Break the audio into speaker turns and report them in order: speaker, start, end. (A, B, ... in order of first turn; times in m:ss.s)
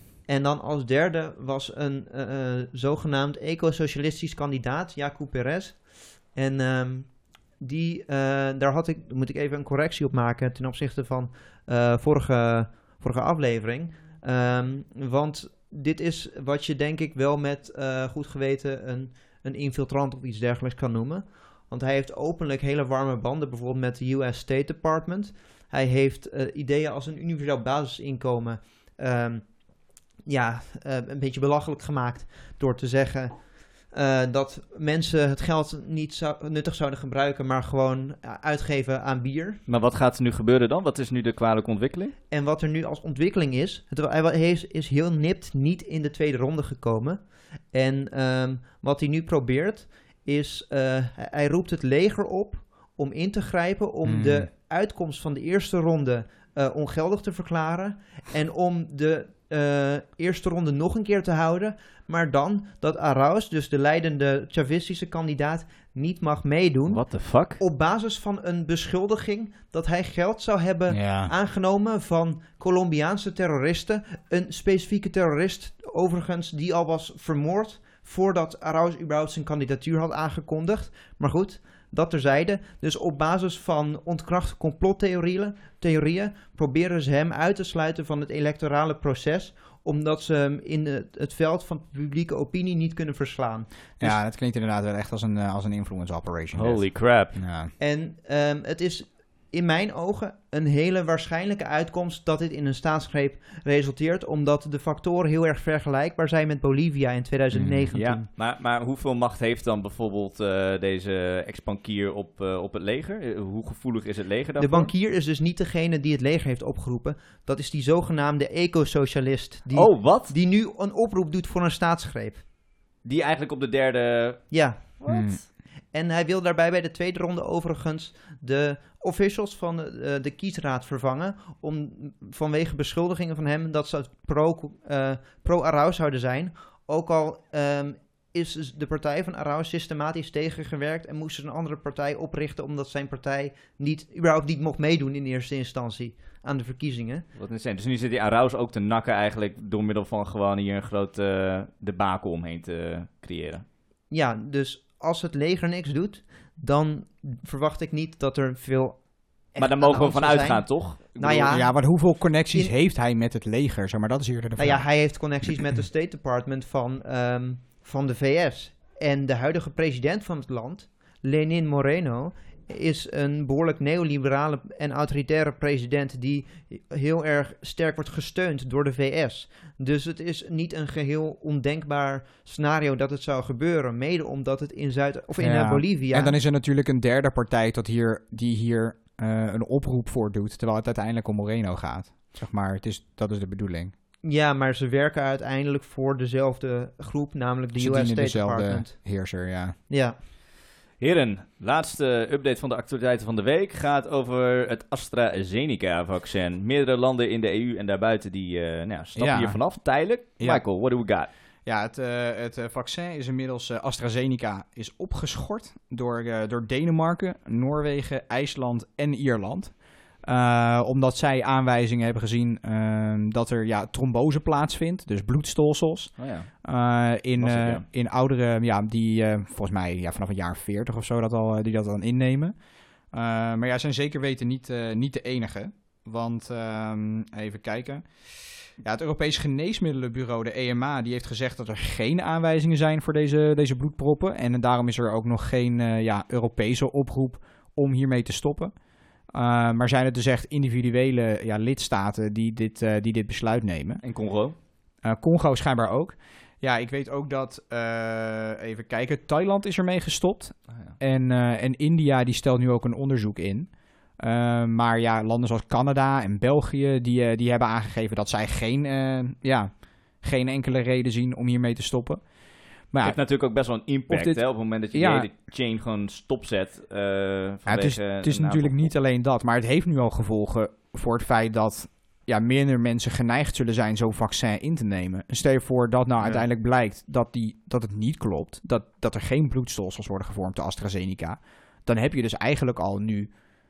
0:00.3-0:39.6 A
0:39.7-0:42.2 B
0:42.3-1:34.2 A
0:54.0-0:54.5 C
1:06.9-1:07.6 B
1:10.9-1:11.3 C
1:34.0-1:37.7 C
1:36.5-1:37.4 B
1:37.8-1:48.3 A
1:47.5-1:48.0 C
1:47.9-1:54.9 B
1:54.6-2:02.4 A
1:59.7-2:00.3 B
2:03.0-2:05.4 B
2:04.5-2:27.3 A
2:05.1-2:05.4 C
2:27.4-2:33.6 B
2:34.1-2:42.7 A
2:39.6-2:41.5 B
2:41.5-2:44.9 C
2:44.6-3:06.4 A
3:05.4-3:13.9 C
3:14.2-3:19.2 A
3:17.8-3:19.8 C
3:19.9-3:20.2 A
3:21.0-3:31.3 B
3:29.2-3:29.9 C
3:30.4-3:30.6 C
3:31.6-4:08.8 C
3:46.2-3:46.6 B
3:47.4-3:47.8 B
4:09.3-4:14.0 C
4:14.0-4:14.6 B
4:15.0-4:33.2 C
4:20.7-4:21.0 B
4:33.0-4:38.8 B
4:34.1-4:35.3 C
4:37.7-4:53.3 C
4:46.2-4:46.4 B